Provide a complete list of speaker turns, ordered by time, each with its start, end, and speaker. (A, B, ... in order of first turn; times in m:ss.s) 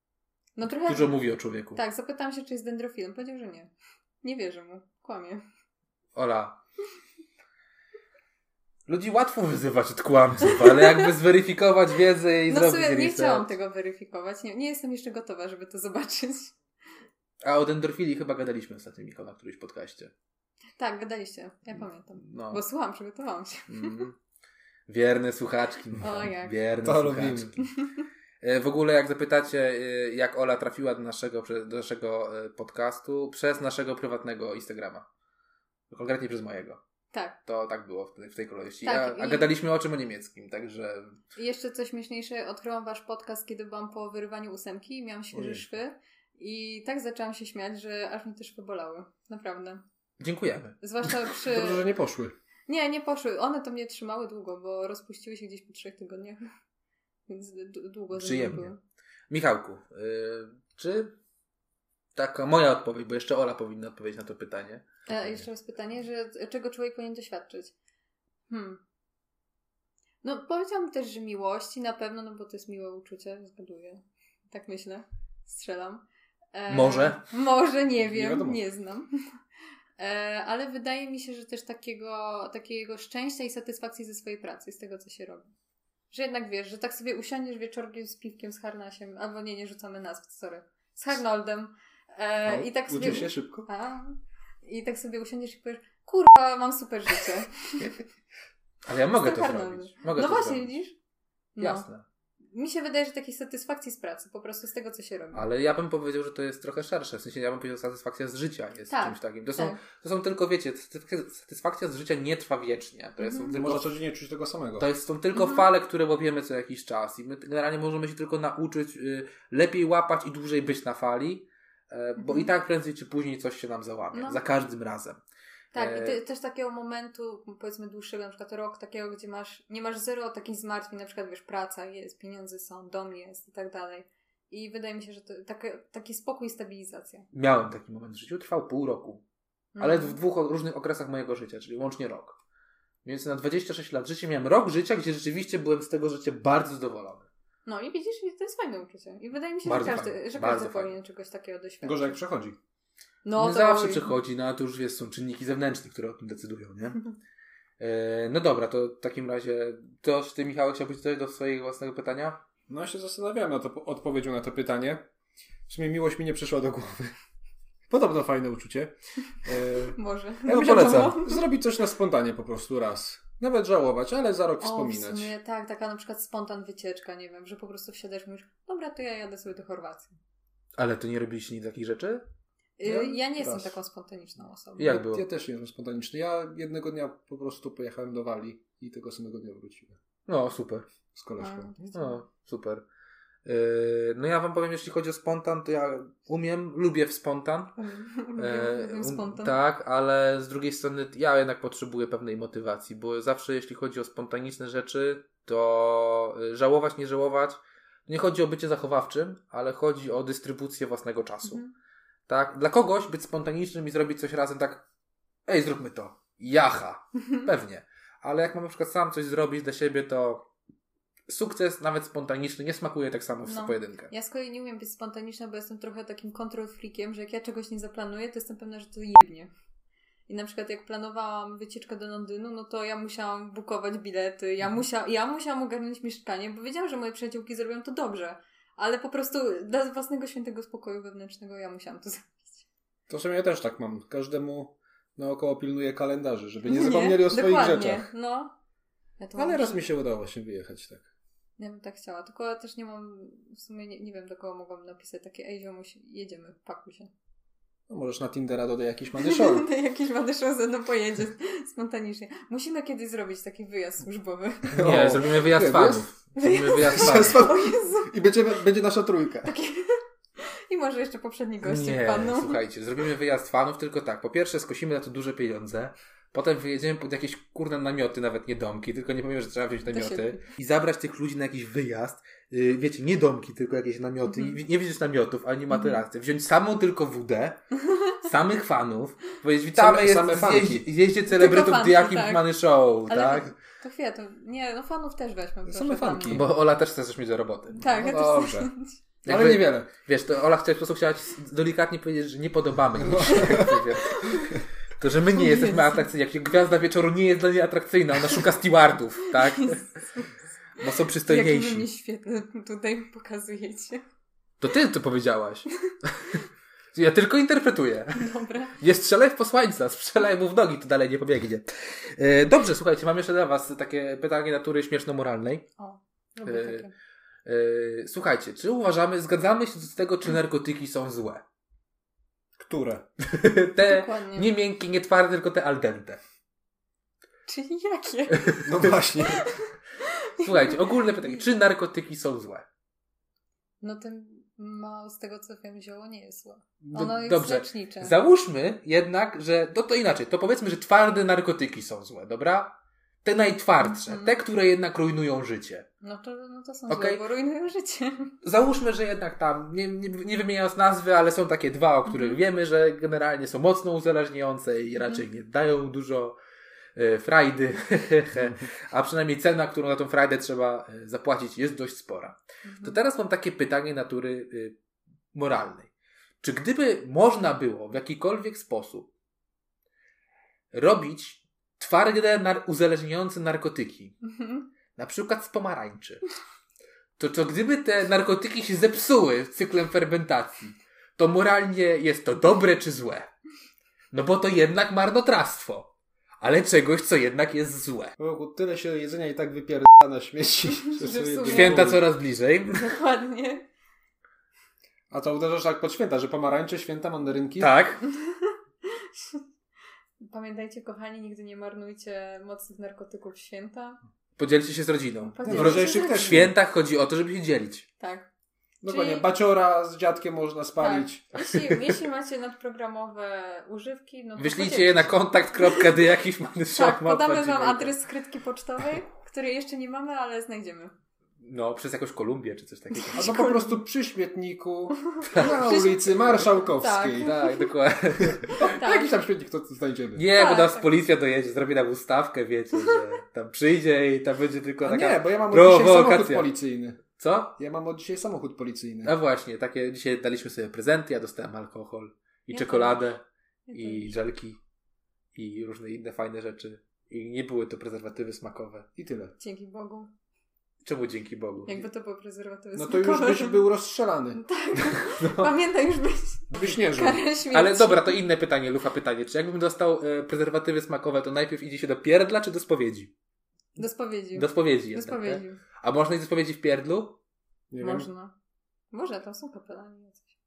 0:00.6-0:01.2 A
0:00.9-0:01.8 B
0:01.8-0:03.7 A
0:04.2-0:05.4 A
0:06.2-0:06.6 B
0:08.9-0:13.5 B
0:10.6-0:11.1 A
0:12.5-0:16.6 A
0:17.4-0:20.1 B
0:20.8-0:24.0 A
0:22.2-0:22.6 B
0:23.7-0:24.2 B
0:24.9-0:27.7 B
0:26.0-0:26.6 A
0:26.8-0:27.6 C
0:27.6-0:27.9 A
0:28.4-0:35.0 B
0:35.9-0:36.8 B
0:37.1-0:37.4 A
0:37.5-0:41.2 B
0:38.8-0:39.5 A
0:41.4-0:49.8 A
0:45.3-0:45.7 C
0:50.2-0:50.8 B
0:50.8-0:51.9 A
0:51.5-0:52.3 C
0:52.7-0:56.4 A
0:57.3-0:58.8 A
0:58.1-0:58.7 B
0:59.3-1:01.1 B
1:02.2-1:04.9 B
1:05.1-1:07.7 A
1:08.5-1:08.8 A
1:10.2-1:19.1 A
1:16.7-1:17.2 B
1:18.0-1:18.6 C
1:20.0-1:25.5 A
1:26.1-1:37.9 A
1:32.4-1:33.7 C
1:38.9-1:40.7 B
1:39.1-1:41.0 A
1:41.6-1:41.9 A
1:41.6-1:42.0 B
1:42.5-1:45.4 A
1:45.3-1:53.9 B
1:48.9-1:49.8 A
1:53.2-1:53.5 A
1:53.6-1:54.9 C
1:54.8-2:05.2 B
1:55.3-1:55.7 A
2:02.2-2:02.5 A
2:04.1-2:04.4 A
2:05.7-2:17.3 A
2:05.8-2:06.2 B
2:17.3-2:19.2 B
2:19.8-2:20.2 A
2:19.8-2:22.4 B
2:23.0-2:27.3 B
2:27.7-2:32.2 A
2:29.6-2:30.9 B
2:31.8-2:32.6 C
2:33.2-2:34.1 A
2:33.4-2:37.1 B
2:37.8-2:42.4 B
2:42.7-2:45.0 C
2:45.7-2:47.1 C
2:47.9-2:55.4 C
2:50.0-2:51.4 A
2:50.5-2:51.1 B
2:54.6-3:00.2 A
3:00.8-3:02.2 B
3:02.8-3:05.0 A
3:02.8-3:03.8 C
3:04.8-3:05.2 B
3:04.8-3:10.0 C
3:10.3-3:10.9 B
3:11.1-3:11.9 C
3:11.4-3:12.2 A
3:11.9-3:12.8 B
3:13.4-3:17.7 B
3:17.8-3:19.6 A
3:18.4-3:31.6 B
3:32.3-3:34.8 B
3:35.5-3:40.5 B
3:41.3-3:44.1 B
3:43.5-3:49.5 A
3:50.3-4:02.6 A
4:03.1-4:08.1 C
4:06.6-4:08.5 A
4:09.2-4:09.8 A
4:09.4-4:11.1 C
4:11.6-4:17.1 A
4:17.9-4:19.7 C
4:19.2-4:24.8 A
4:24.7-4:26.1 C
4:24.8-4:27.4 B
4:26.4-4:28.1 A
4:26.9-4:29.5 C
4:29.4-4:32.6 A
4:31.6-4:47.6 B
4:39.9-4:40.4 A
4:44.3-4:44.6 A
4:45.7-4:46.0 A
4:47.9-4:48.2 A
4:48.2-4:53.5 B
4:49.7-4:50.9 C
4:51.3-4:52.5 A
4:53.1-4:56.5 A
4:55.7-4:56.5 C
4:56.3-4:58.0 B
4:57.8-4:59.0 A
4:57.8-4:58.7 C
4:59.2-4:59.9 C
4:59.2-5:09.9 B
5:03.0-5:03.7 C
5:03.3-5:04.6 A
5:05.3-5:06.1 A
5:09.3-5:10.3 A
5:10.8-5:11.9 B
5:11.2-5:14.0 A
5:14.6-5:16.4 B
5:16.9-5:25.7 B
5:18.1-5:18.8 A
5:25.8-5:26.9 A
5:26.4-5:26.9 B
5:27.5-5:31.4 B
5:32.6-5:33.0 C
5:33.2-5:36.2 B
5:33.8-5:34.5 A
5:37.5-5:41.4 A
5:38.6-5:39.5 C
5:40.4-5:42.7 B
5:43.8-5:48.2 A
5:46.9-5:55.9 B
5:53.8-5:54.3 A
5:56.0-5:58.4 A
5:56.9-5:57.2 B
5:58.4-6:06.4 B
6:02.1-6:02.4 A
6:05.0-6:05.2 A
6:07.0-6:14.8 B
6:12.6-6:13.0 A
6:15.3-6:15.9 B
6:16.4-6:19.1 B
6:20.7-6:24.2 B
6:24.2-6:24.7 A
6:25.0-6:26.2 B
6:27.2-6:33.3 B
6:34.1-6:35.9 B
6:36.4-6:38.1 B
6:38.2-6:42.0 C
6:41.0-6:42.0 A
6:41.4-6:42.9 B
6:42.7-6:43.6 A
6:45.1-6:47.7 C
6:47.6-6:48.0 B
6:48.3-6:49.4 A
6:50.2-6:54.0 A
6:54.4-6:57.9 B
6:55.3-6:56.5 A
6:55.4-6:56.5 C
6:58.0-6:58.3 A
6:58.8-7:01.2 C
6:58.9-6:59.3 A
7:00.8-7:06.0 A
7:01.4-7:01.8 B
7:04.4-7:07.9 B
7:06.7-7:10.9 A
7:11.4-7:13.3 B
7:12.9-7:13.8 A
7:13.2-7:17.3 C
7:15.0-7:17.7 A
7:15.2-7:15.6 B
7:17.2-7:18.5 B
7:18.4-7:20.2 C
7:18.6-7:19.2 A
7:20.2-7:26.5 B
7:20.3-7:20.9 A
7:24.8-7:27.0 C
7:27.2-7:27.6 B
7:27.6-7:29.1 C
7:29.0-7:34.6 B
7:32.5-7:33.1 A
7:33.7-7:34.1 A
7:35.4-7:38.9 B
7:39.0-7:39.3 C
7:39.4-7:40.1 A
7:40.8-7:41.8 B
7:41.7-7:43.7 A
7:42.8-7:44.4 C
7:44.4-7:48.2 A
7:46.5-7:47.2 C
7:47.5-7:53.1 B
7:53.8-7:55.6 A
7:54.4-7:57.2 B
7:57.7-7:58.1 C
7:57.8-7:58.3 A
7:58.9-8:00.3 A